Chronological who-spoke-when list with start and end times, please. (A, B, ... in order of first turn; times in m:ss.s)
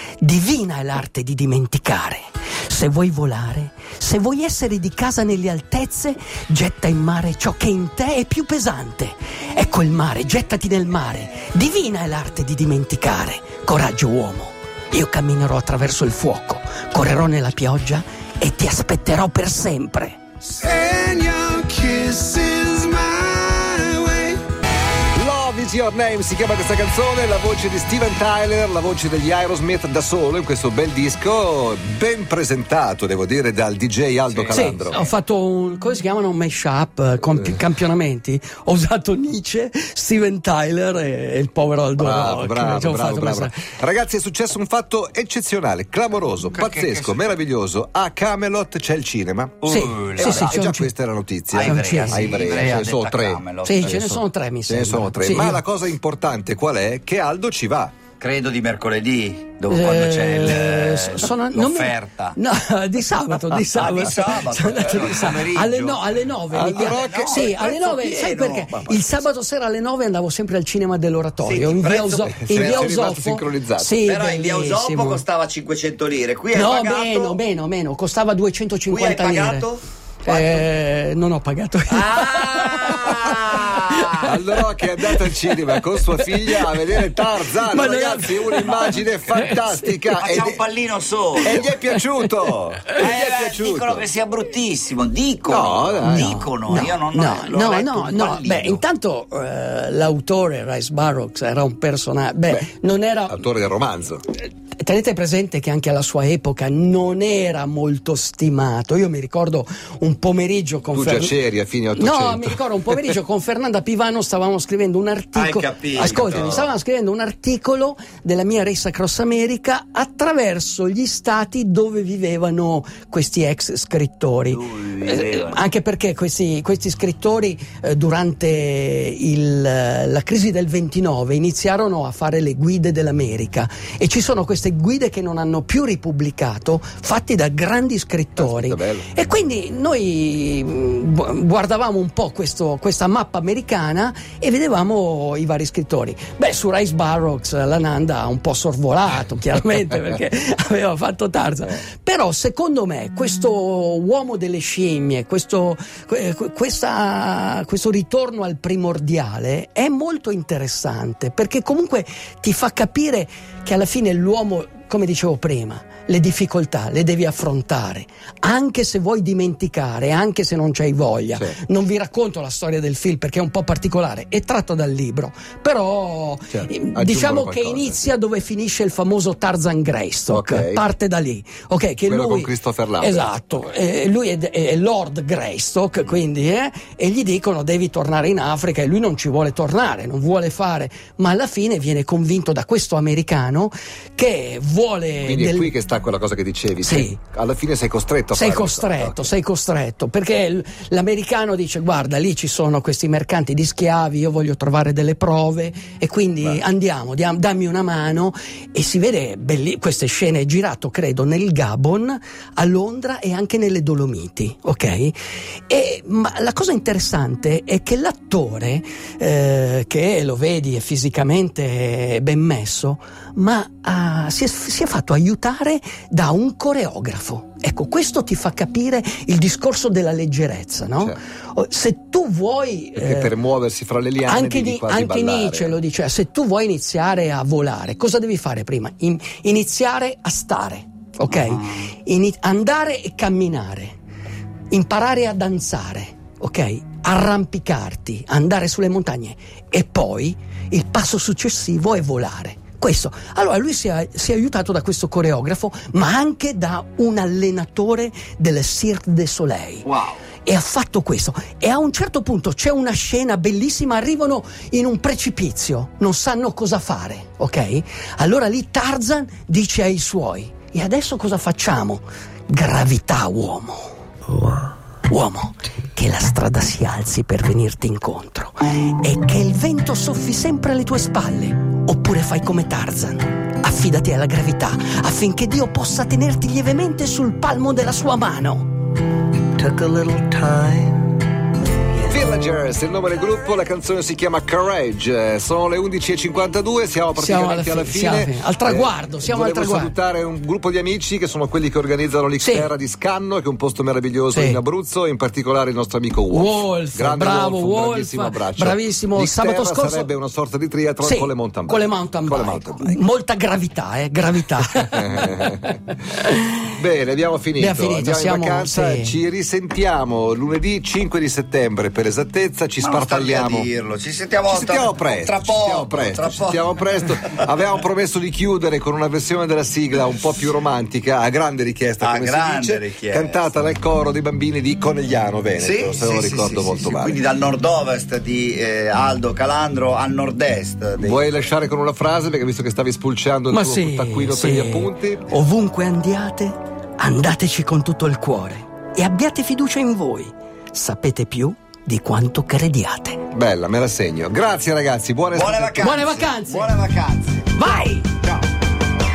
0:00.2-0:20.2 A
0:20.6-0:24.4 B
0:21.5-0:22.9 C
0:23.6-0:23.9 C
0:25.1-0:35.1 C
0:34.5-0:43.6 A
0:42.0-0:57.9 C
0:46.4-0:47.3 D
0:49.6-0:50.6 D
0:49.6-0:50.9 A
0:51.5-0:54.0 D
0:51.6-0:52.6 A
0:53.6-0:55.6 A
0:58.2-1:02.4 D
0:59.7-1:15.2 A
1:03.7-1:06.0 D
1:06.5-1:07.5 C
1:06.8-1:08.9 D
1:11.4-1:12.9 D
1:12.5-1:13.9 C
1:14.0-1:17.4 D
1:16.5-1:19.6 A
1:18.9-1:20.7 D
1:20.2-1:30.4 A
1:21.9-1:24.1 D
1:24.2-1:30.6 C
1:30.2-1:31.7 D
1:31.4-1:34.0 C
1:31.4-1:32.0 A
1:32.9-1:38.8 D
1:35.5-1:36.3 C
1:36.0-1:43.4 A
1:43.3-1:44.2 C
1:44.4-1:51.4 A
1:50.9-1:53.1 C
1:51.9-3:15.7 A
1:55.3-1:56.7 D
2:04.5-2:05.6 D
2:18.4-2:19.1 C
2:56.5-2:58.1 C
3:00.3-3:00.8 C
3:02.0-3:03.3 C
3:15.2-3:19.3 C
3:16.8-3:17.2 A
3:18.3-3:35.2 A
3:35.7-3:53.3 A
3:53.0-3:55.8 C
3:54.2-4:04.0 A
4:01.3-4:01.8 D
4:04.7-4:19.9 A
4:19.8-4:20.2 D
4:20.4-4:33.9 A
4:35.1-4:48.7 A
4:49.6-4:50.9 A
4:49.7-4:51.0 B
4:52.1-5:13.0 C
4:57.2-5:00.0 A
5:02.4-5:02.7 A
5:04.3-5:04.6 A
5:06.3-5:10.1 A
5:11.0-5:16.4 A
5:14.7-5:15.8 C
5:16.8-5:23.7 C
5:17.6-5:19.2 A
5:22.8-5:27.4 D
5:24.5-5:37.2 C
5:32.0-5:33.5 D
5:35.6-5:41.5 D
5:41.0-5:45.3 C
5:43.5-5:53.2 A
5:53.3-5:56.1 C
5:55.3-5:57.6 D
5:55.8-5:56.7 A
5:57.5-5:58.1 A